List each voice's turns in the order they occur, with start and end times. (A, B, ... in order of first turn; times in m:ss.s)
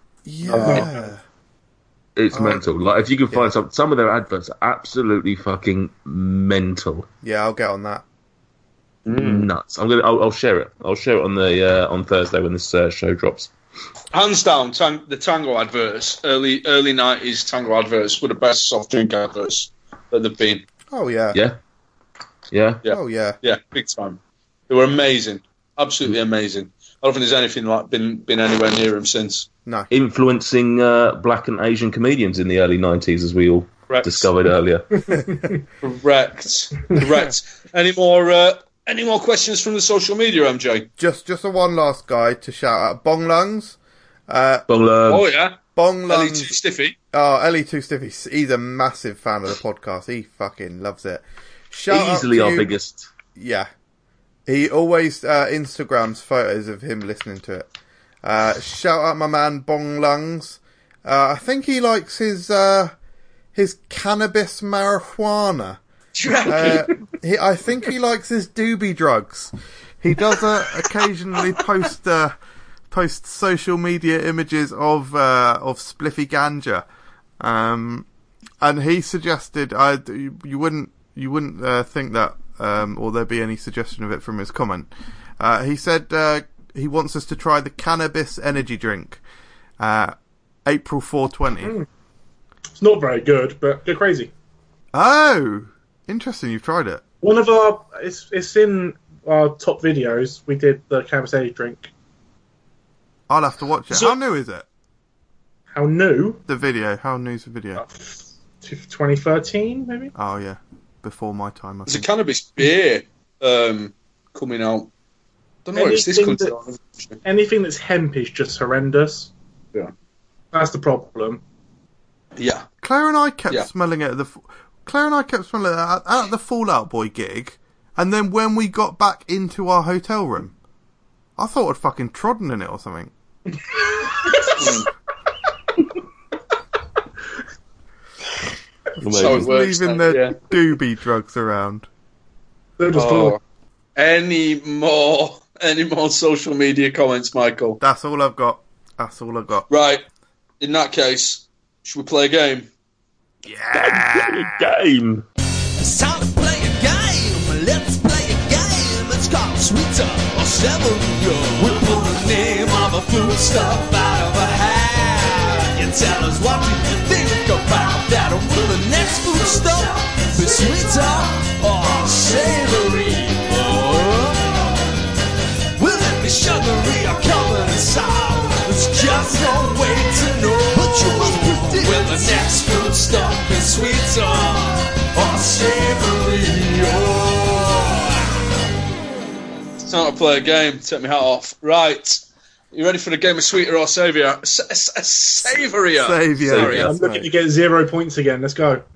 0:00.2-0:01.2 A
0:00.5-0:00.9 B
0:02.2-0:07.1 C
0:02.3-0:02.6 A
0:07.2-0:08.0 A
0:09.0-0:09.5 B
0:09.2-0:13.5 C
0:14.1-0:20.6 B
0:20.9-0:21.4 A
0:21.3-0:21.6 C
0:22.5-0:22.8 C
0:22.8-0:29.5 B
0:22.9-0:23.4 A
0:29.6-0:29.9 A
0:29.9-0:35.1 C
0:33.9-0:34.3 B
0:35.1-0:35.5 A
0:35.8-0:40.9 B
0:41.0-0:44.6 A
0:44.7-0:45.3 C
0:45.1-0:46.9 B
0:45.8-0:46.5 A
0:47.1-0:52.7 A
0:51.9-0:53.1 C
0:53.4-0:53.7 A
0:54.5-0:57.7 A
0:58.2-1:02.9 A
1:03.5-1:05.8 A
1:06.2-1:06.9 B
1:06.4-1:12.3 A
1:12.9-1:16.8 A
1:17.4-1:18.1 A
1:18.6-1:29.2 A
1:29.8-1:30.1 A
1:30.6-1:31.8 A
1:32.8-1:34.3 D
1:34.9-1:37.0 A
1:37.2-1:41.9 D
1:43.3-1:44.6 A
1:43.9-1:44.2 D
1:45.7-1:46.4 D
1:46.5-1:47.8 A
1:47.8-1:50.1 D
1:50.2-1:52.1 A
1:51.9-1:54.9 B
1:55.6-1:57.2 B
1:55.7-1:56.5 D
1:57.2-1:59.3 D
2:00.5-2:01.4 D
2:02.4-2:02.7 B
2:02.8-2:10.5 A
2:11.4-2:13.1 A
2:14.2-2:14.7 D
2:14.6-2:14.8 B
2:19.0-2:21.9 A
2:19.0-2:19.5 C
2:19.2-2:20.4 B
2:22.8-2:23.4 D
2:22.9-2:23.4 B
2:24.0-2:27.8 B
2:27.8-2:29.7 A
2:29.7-2:30.0 B
2:30.6-2:32.7 B
2:33.5-2:34.0 A
2:33.7-2:35.2 C
2:35.8-2:54.9 E
2:55.8-3:08.5 E
3:01.7-3:02.2 B
3:09.9-3:16.9 B
3:15.4-3:17.3 A
3:16.4-3:16.9 C
3:16.8-3:18.8 D